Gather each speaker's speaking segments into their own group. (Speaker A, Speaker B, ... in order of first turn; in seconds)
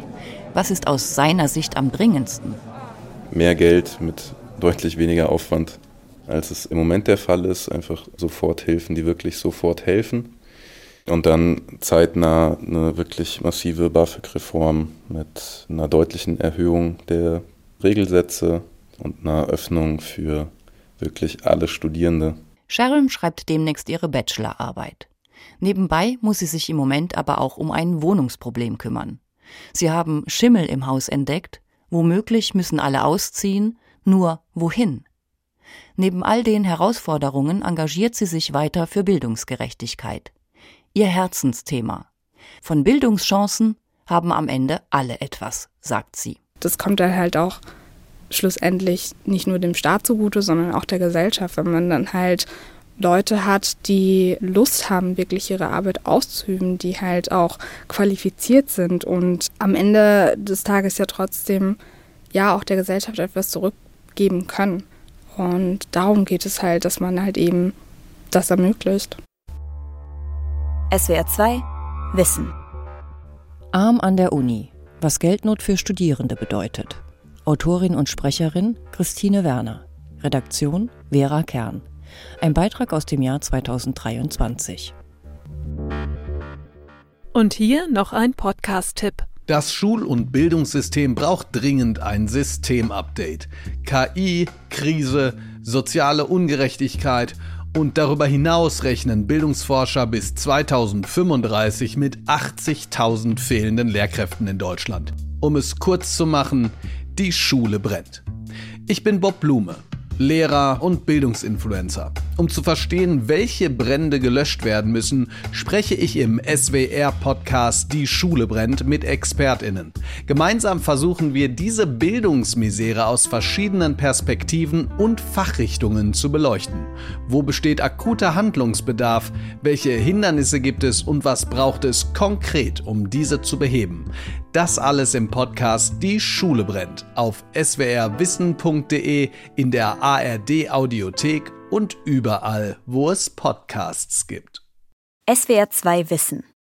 Speaker A: 0.5-2.6, 22.7-25.1, 25.6-29.2, 29.7-35.1, 36.0-40.3, 40.9-42.1, 42.6-46.4, 73.7-81.8, 82.4-84.9
Speaker B: 3.3-10.3, 11.1-22.4
Speaker C: 46.6-47.6, 48.3-61.8, 62.3-67.8, 68.3-69.2
Speaker D: 70.9-72.5, 145.3-146.5
Speaker E: 87.3-89.3
Speaker F: 89.5-108.2, 108.9-144.6